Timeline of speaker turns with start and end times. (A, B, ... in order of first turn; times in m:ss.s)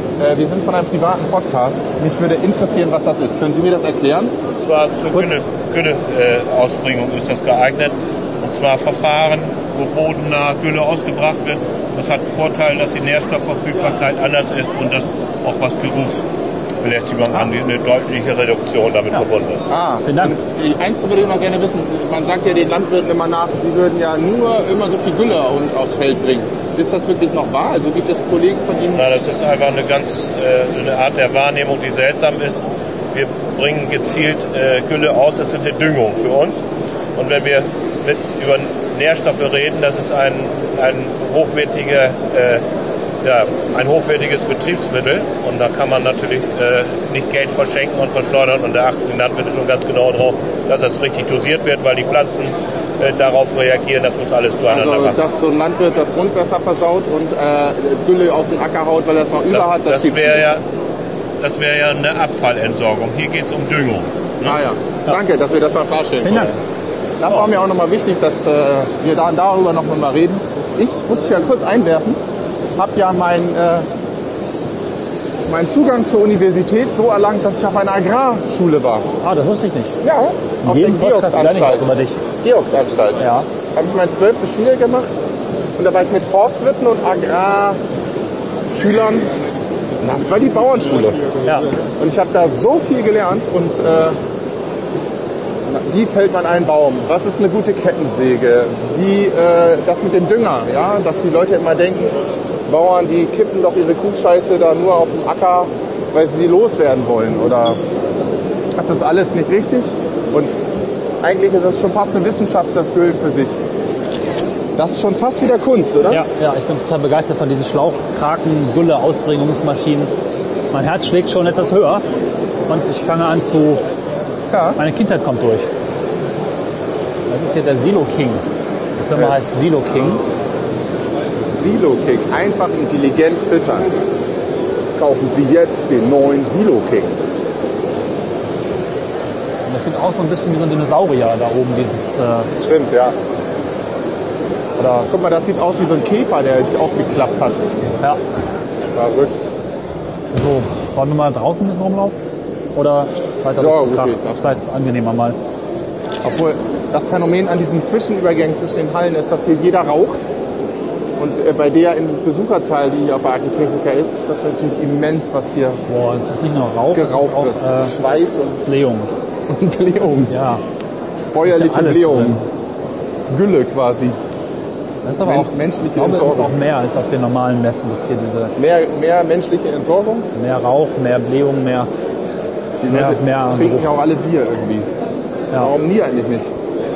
0:00.2-0:04.3 A
0:04.6-0:16.2 B
0:05.1-0:05.4 C
0:16.8-0:19.6 B
0:19.7-0:29.0 A
0:20.0-0:20.3 C
0:28.9-0:32.6 B
0:33.1-0:36.6 B
0:37.2-0:42.6 B
0:43.2-0:55.2 B
0:54.7-1:00.5 A
0:59.5-1:00.6 B
1:01.4-1:04.6 B
1:04.4-1:06.5 A
1:06.2-1:06.6 C
1:07.2-1:12.2 A
1:12.8-1:13.9 A
1:15.4-1:19.1 A
1:19.2-1:20.0 C
1:20.0-1:25.1 A
1:20.6-1:22.2 C
1:23.2-1:23.5 C
1:25.8-1:27.8 A
1:28.7-1:29.3 A
1:30.0-1:31.4 A
1:31.4-1:31.7 C
1:31.9-1:34.2 A
1:35.6-1:42.2 A
1:42.7-1:47.8 A
1:48.8-1:50.5 A
1:51.2-1:53.6 A
1:54.8-1:56.2 A
1:56.1-2:00.1 C
2:00.7-2:02.0 C
2:02.7-2:03.8 C
2:04.5-2:04.8 A
2:04.8-2:05.7 C
2:07.3-2:08.4 C
2:09.0-2:10.2 C
2:09.1-2:09.4 A
2:11.4-2:13.9 A
2:15.0-2:17.2 A
2:19.6-2:22.5 C
2:22.6-2:23.2 A
2:24.8-2:25.1 C
2:25.1-2:27.6 A
2:28.9-2:29.4 A
2:30.3-2:32.2 C
2:32.7-2:35.4 C
2:33.6-2:34.5 A
2:36.2-2:40.3 A
2:41.2-2:45.8 A
2:45.9-2:47.9 C
2:46.9-2:48.6 A
2:48.6-2:49.1 C
2:49.5-2:50.3 A
2:50.3-2:50.6 C
2:51.3-2:52.4 A
2:51.4-2:52.4 C
2:53.3-2:54.2 A
2:55.0-2:58.5 C
2:55.2-2:56.5 A
2:58.6-3:00.3 A
3:00.3-3:01.9 C
3:02.8-3:04.9 A
3:02.9-3:03.9 C
3:05.5-3:06.5 A